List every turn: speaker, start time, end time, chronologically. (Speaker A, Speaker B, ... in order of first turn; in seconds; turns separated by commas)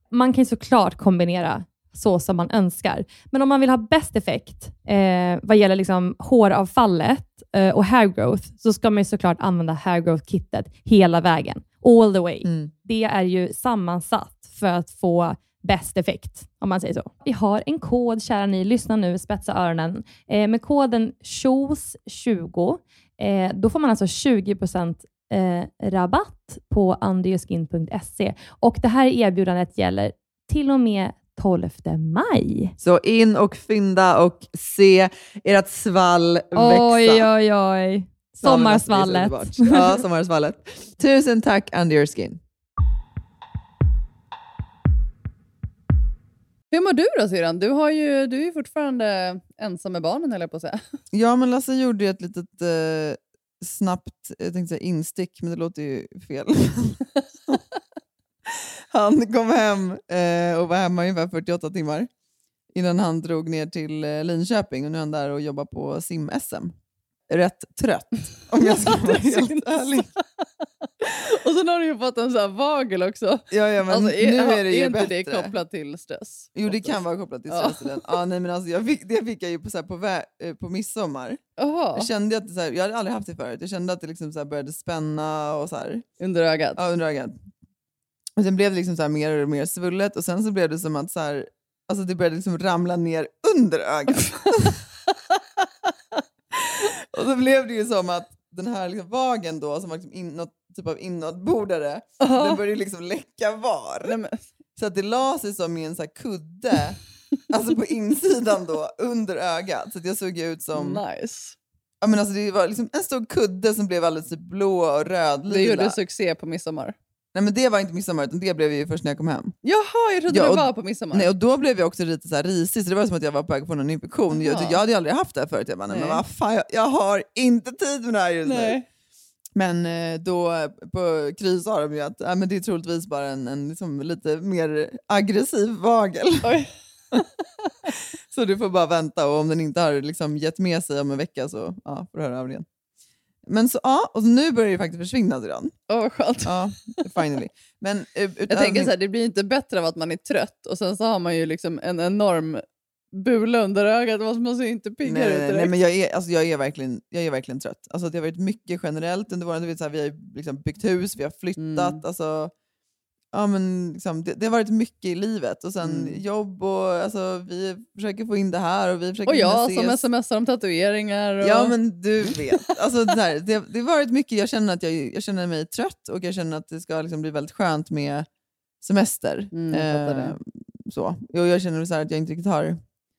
Speaker A: 0.1-32.7, Speaker B: 12.4-12.7, Speaker B: 32.8-37.3, Speaker A: 36.5-40.0, Speaker B: 38.4-42.4, Speaker C: 46.7-50.8, Speaker B: 51.1-57.6, Speaker B: 58.5-62.1, Speaker B: 62.7-66.7, Speaker B: 67.3-70.1, Speaker C: 68.6-70.4, Speaker C: 71.0-77.0, Speaker B: 73.5-75.5, Speaker B: 76.5-81.4, Speaker C: 77.5-78.1, Speaker C: 81.6-82.1, Speaker B: 81.9-86.0, Speaker C: 86.2-86.8, Speaker B: 86.8-87.4, Speaker B: 88.4-94.8, Speaker B: 96.5-104.2, Speaker C: 102.2-102.6, Speaker C: 104.0-104.4, Speaker B: 104.8-107.0, Speaker B: 107.5-111.0, Speaker C: 110.7-111.6, Speaker B: 112.0-116.0, Speaker C: 115.5-117.0, Speaker B: 117.3-119.5, Speaker C: 119.6-121.3, Speaker B: 120.3-128.8, Speaker C: 124.3-124.8, Speaker C: 125.9-126.2, Speaker C: 128.4-128.8, Speaker B: 129.5-136.6, Speaker C: 136.4-136.7, Speaker B: 138.3-142.7, Speaker B: 143.4-145.7, Speaker C: 145.9-147.0, Speaker B: 146.4-148.9, Speaker C: 148.5-155.7, Speaker B: 155.0-162.5, Speaker C: 161.6-162.0, Speaker B: 163.3-170.0, Speaker C: 165.8-166.2, Speaker C: 169.2-171.8, Speaker B: 171.4-178.3, Speaker B: 178.8-182.8, Speaker C: 179.5-180.3